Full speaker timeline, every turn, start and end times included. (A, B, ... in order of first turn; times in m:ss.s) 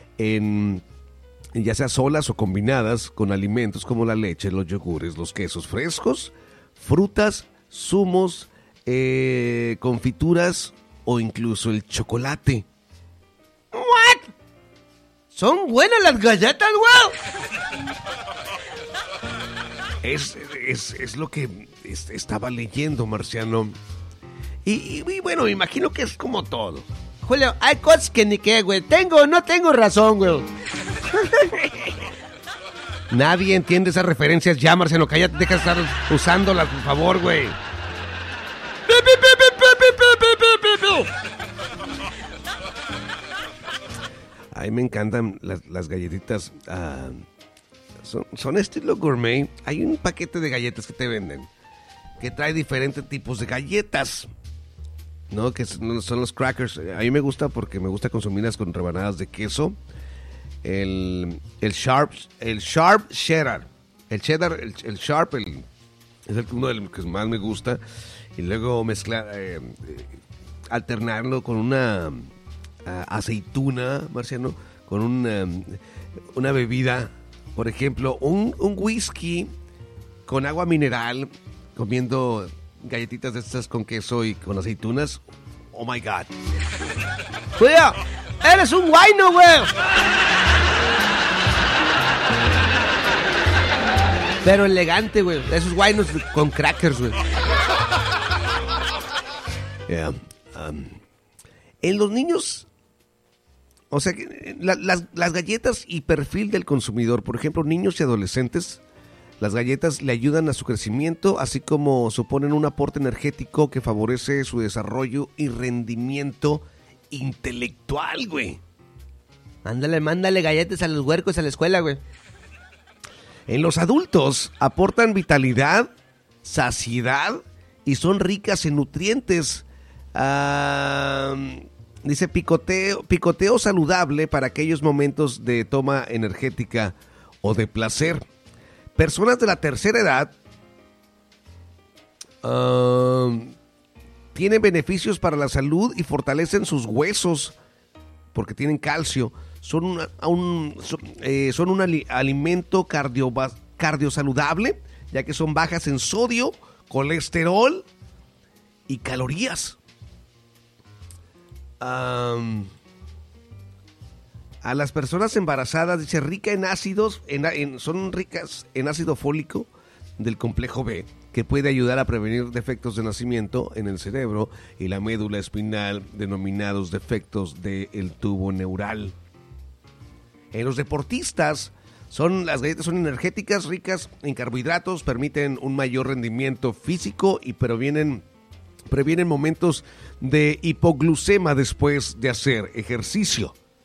0:00.2-0:00.8 A
0:01.5-0:12.7 A
0:13.7-0:14.3 B
0:15.3-0:17.2 B
0:20.0-0:23.8 A
0:24.6-0:26.9 A
0:27.2-0:30.5 B
0:31.2-0:31.9 A
0:33.1-0:37.6 A
0:38.9-0:41.1 B
0:44.5-0:47.3 A
0:48.0-0:51.5 A
0:52.2-0:54.3 A
0:55.3-0:59.8 A
1:00.6-1:05.7 A
1:06.3-1:07.8 A
1:08.4-1:10.2 A
1:10.7-1:12.3 A
1:12.8-1:15.8 A
1:16.3-1:19.5 A
1:20.3-1:26.3 A
1:27.6-1:29.7 B
1:34.4-1:37.2 B
1:39.9-1:41.0 A
1:41.8-1:42.7 A
1:43.9-1:48.8 A
1:49.4-1:58.6 A
1:59.6-2:02.0 B
2:03.5-2:05.9 A
2:06.4-2:18.3 A
2:19.0-2:20.4 A
2:22.4-2:23.6 A
2:24.3-2:27.6 A
2:28.3-2:37.9 A
2:38.9-2:39.8 A
2:41.8-2:42.7 A
2:44.6-2:59.2 A
3:00.5-3:08.2 A
3:08.9-3:13.6 A